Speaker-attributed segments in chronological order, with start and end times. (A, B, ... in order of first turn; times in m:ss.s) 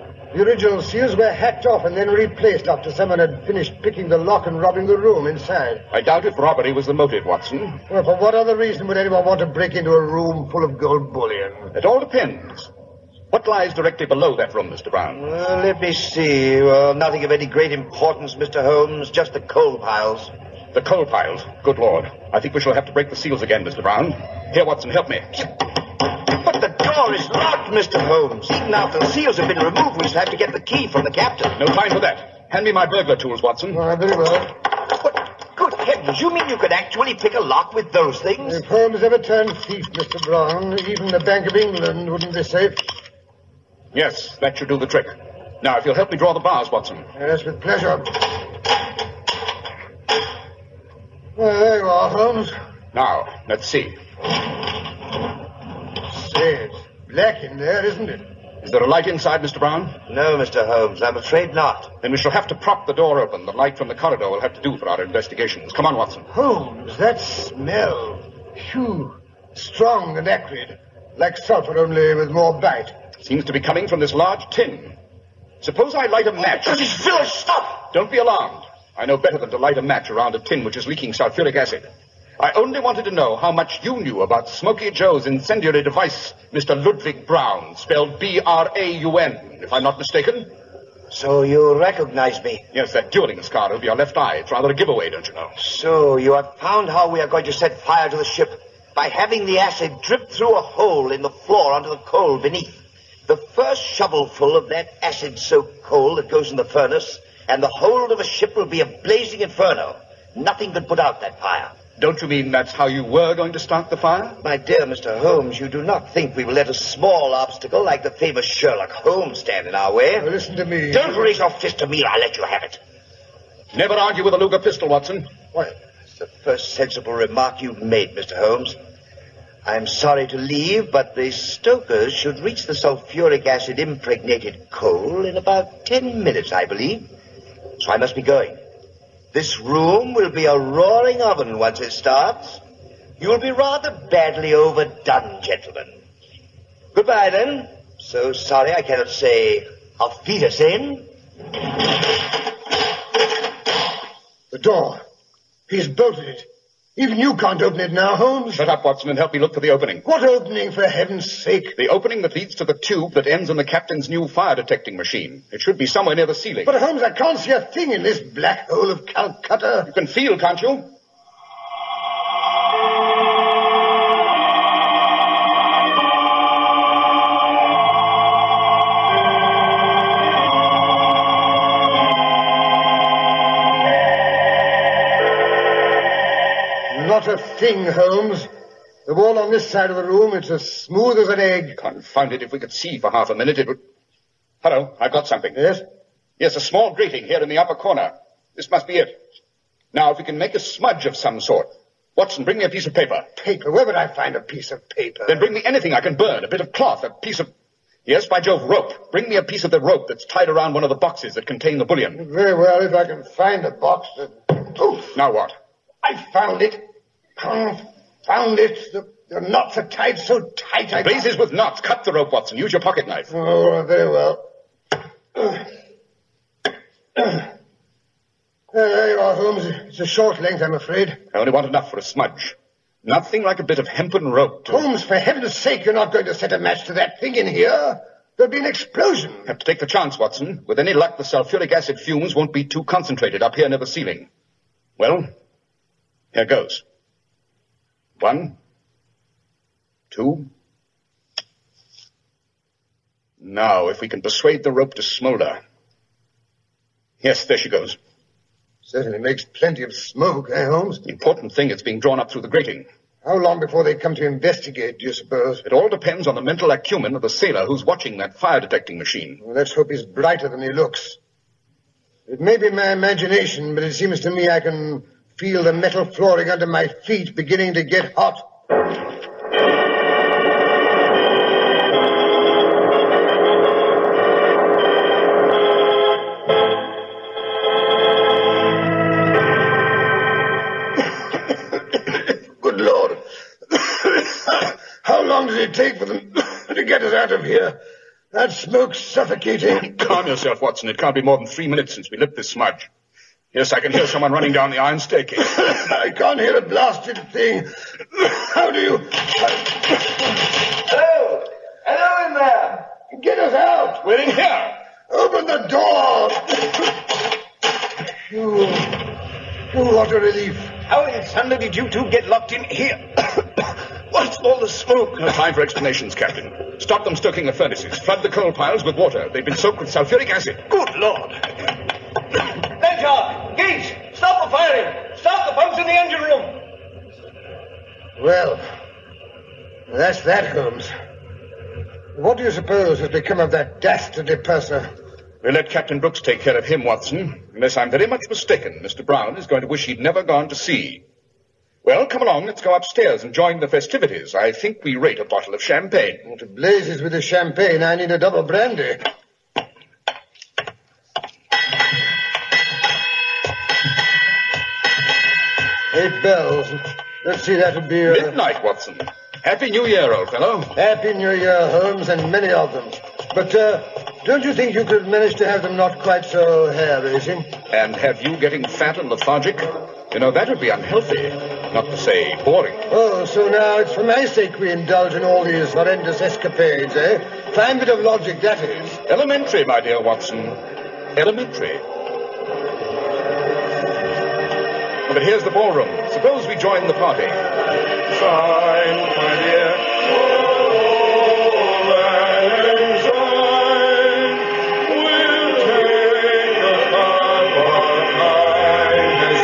0:00.3-0:05.8 A
0:05.9-0:07.8 B
0:07.9-0:11.7 A
0:11.7-0:12.7 B
0:13.3-0:15.2 B
0:15.1-0:20.3 C
0:20.7-0:25.5 B
0:26.3-0:31.5 C
0:31.6-0:33.8 B
0:33.7-0:34.5 A
0:34.9-0:38.6 C
0:38.4-0:42.8 A
0:43.9-0:47.1 B
0:47.2-0:48.2 A
0:51.4-0:52.6 A
0:52.9-0:54.0 B
0:56.1-0:58.3 A
0:58.6-1:00.0 B
1:00.1-1:01.9 C
1:02.0-1:06.3 B
1:06.3-1:13.0 A
1:13.2-1:15.0 B
1:15.6-1:17.3 B
1:16.4-1:17.9 C
1:17.9-1:21.9 B
1:22.4-1:30.5 B
1:31.1-1:32.6 C
1:32.7-1:35.5 B
1:35.6-1:51.8 C
1:52.0-1:54.4 B
1:54.4-2:00.3 C
2:00.2-2:01.4 A
2:00.9-2:02.8 C
2:03.7-2:05.3 B
2:06.2-2:08.8 C
2:09.6-2:17.1 C
2:17.8-2:18.6 C
2:19.3-2:22.6 C
2:23.2-2:26.0 C
2:26.9-2:31.1 C
2:34.5-2:35.0 A
2:35.7-2:38.6 A
2:38.5-2:40.0 B
2:40.0-2:41.8 A
2:41.8-2:46.7 B
2:46.7-2:49.9 A
2:49.9-2:50.9 B
3:06.9-3:08.5 A
3:09.1-3:11.8 A
3:11.8-3:13.8 B
3:14.6-3:15.6 B
3:15.5-3:15.8 A
3:16.4-3:19.2 B
3:19.9-3:23.3 B
3:23.4-3:25.5 A
3:25.3-3:27.5 B
3:28.1-3:32.2 B
3:32.2-3:35.2 A
3:35.1-3:35.5 B
3:36.0-3:36.8 A
3:37.4-3:41.3 A
3:41.0-3:43.3 B
3:43.3-3:44.5 A
3:45.4-3:45.6 A
3:47.2-3:47.5 A
3:48.7-3:51.2 A
3:51.3-3:54.8 B
3:54.7-3:59.5 A
3:59.5-4:04.3 B
4:05.0-4:05.3 B
4:06.3-4:06.8 B
4:08.2-4:08.6 B
4:10.1-4:10.5 B
4:13.4-4:15.6 B
4:17.2-4:18.0 B
4:18.8-4:21.0 A
4:21.1-4:22.9 B
4:23.2-4:25.6 A
4:25.6-4:29.4 B
4:29.4-4:31.2 A
4:32.3-4:38.5 A
4:52.6-4:57.8 A
4:58.3-5:00.2 A
4:59.9-5:02.9 B
5:03.5-5:05.5 B
5:05.5-5:10.0 A
5:13.1-5:14.3 A
5:14.1-5:14.7 B
5:15.1-5:17.0 A
5:18.3-5:19.1 A
5:19.7-5:20.8 A
5:25.2-5:30.6 B
5:32.8-5:36.5 D
5:38.2-5:38.6 A
5:39.9-5:40.9 A
5:42.2-5:44.9 A
5:45.4-5:51.0 B
5:51.8-5:56.2 B
5:56.3-5:59.1 A
6:05.9-6:08.4 A
6:08.1-6:10.7 B
6:10.8-6:17.5 A
6:17.7-6:22.8 B
6:22.9-6:29.0 A
6:29.1-6:30.6 B
6:31.2-6:31.8 B
6:35.1-6:37.4 B